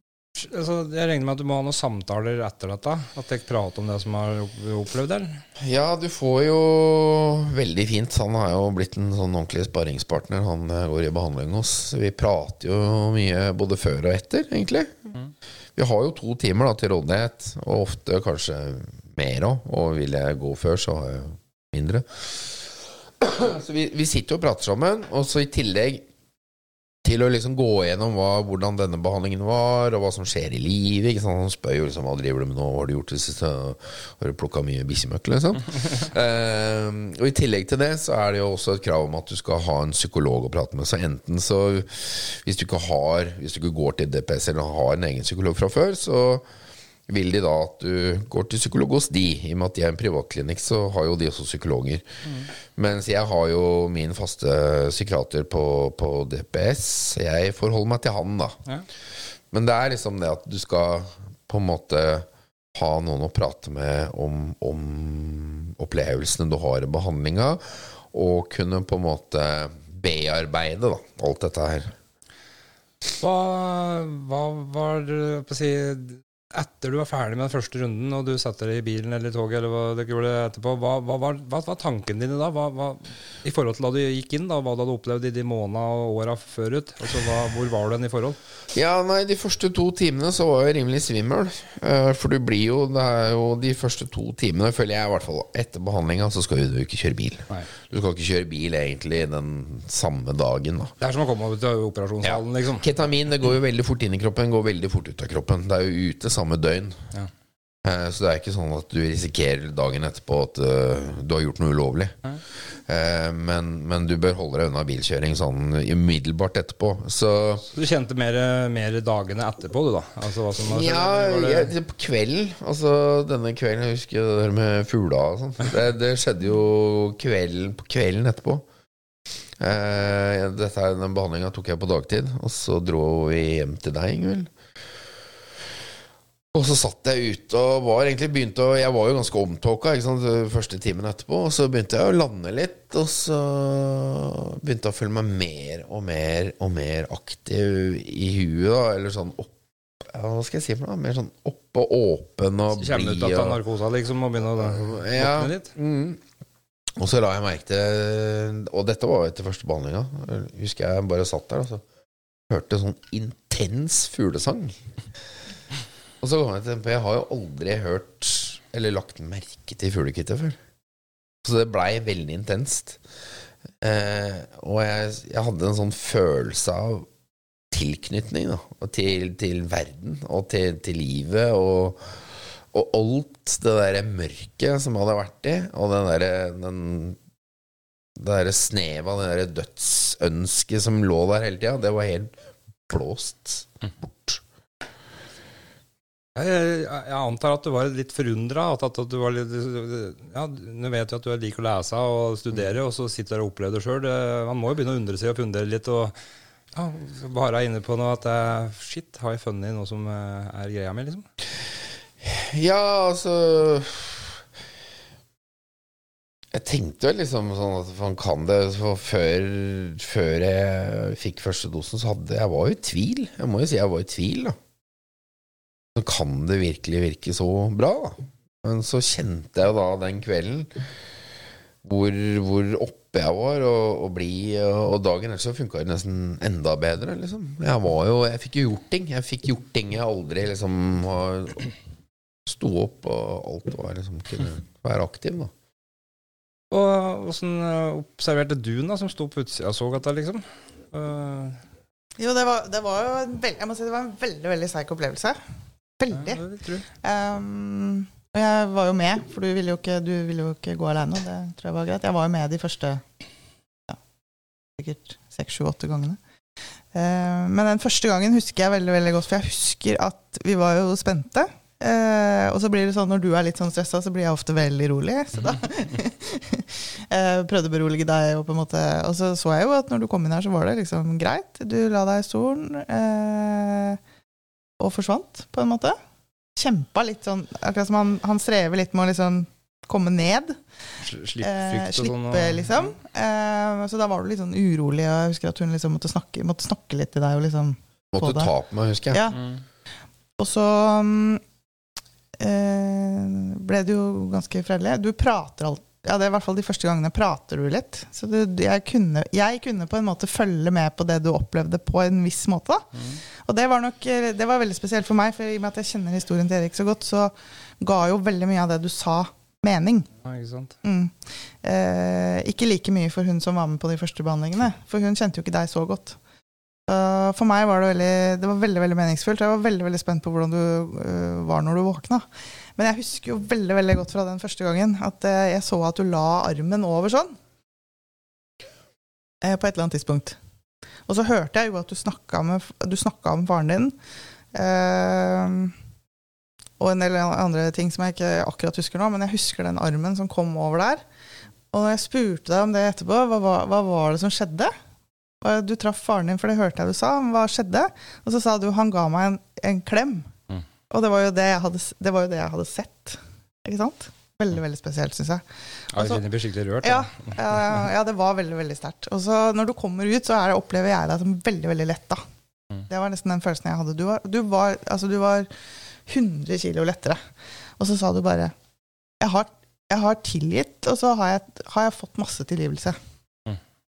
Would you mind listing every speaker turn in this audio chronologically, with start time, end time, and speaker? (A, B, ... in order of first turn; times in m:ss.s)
0:00.3-0:05.4 A
0:05.6-0:15.1 B
0:15.8-0:26.0 B
0:27.0-0:46.4 B
0:47.1-0:52.0 B
0:52.7-0:58.6 B
0:59.5-1:11.9 B
1:13.2-1:28.4 A
1:28.7-1:40.9 B
1:41.0-1:42.8 A
1:42.2-1:47.0 B
1:47.8-1:52.2 B
1:52.8-1:57.6 B
1:57.7-2:01.7 A
2:00.6-2:08.6 B
2:09.6-2:14.5 B
2:16.5-2:33.6 B
2:32.8-2:35.7 A
2:34.6-2:36.2 B
2:37.0-2:41.8 B
2:42.5-2:44.8 B
2:46.2-2:50.6 B
2:51.4-2:53.0 B
2:53.8-2:57.1 B
2:57.7-3:02.2 B
3:02.7-3:07.2 B
3:08.2-3:12.3 B
3:12.9-3:14.4 B
3:16.3-3:26.1 A
3:26.7-3:31.2 A
3:32.2-3:34.4 B
3:36.5-3:44.6 B
3:45.9-3:50.8 B
3:51.8-4:01.7 B
4:02.4-4:05.5 B
4:06.7-4:11.6 A
4:12.2-4:15.4 C
4:16.0-4:16.4 C
4:16.1-4:16.8 A
4:17.0-4:23.0 C
4:24.8-4:26.2 C
4:26.9-4:44.0 C
4:44.8-4:46.0 C
4:46.6-4:50.6 C
4:51.0-4:52.9 A
4:51.4-4:58.5 C
4:58.1-4:59.2 B
4:59.1-4:59.4 C
4:59.3-4:59.6 A
5:00.4-5:01.4 C
5:02.4-5:20.1 C
5:20.2-5:20.7 A
5:20.8-5:26.2 C
5:26.9-5:32.2 C
5:32.8-5:37.4 C
5:39.4-5:40.4 C
5:41.1-5:43.9 C
5:44.5-5:45.7 C
5:46.8-5:51.0 C
5:51.7-5:54.7 C
5:55.4-6:00.3 C
6:00.9-6:05.4 C
6:05.9-6:06.2 C
6:05.9-6:07.8 A
6:06.8-6:12.2 C
6:12.9-6:15.5 C
6:16.1-6:17.2 C
6:17.8-6:18.5 C
6:19.2-6:23.0 C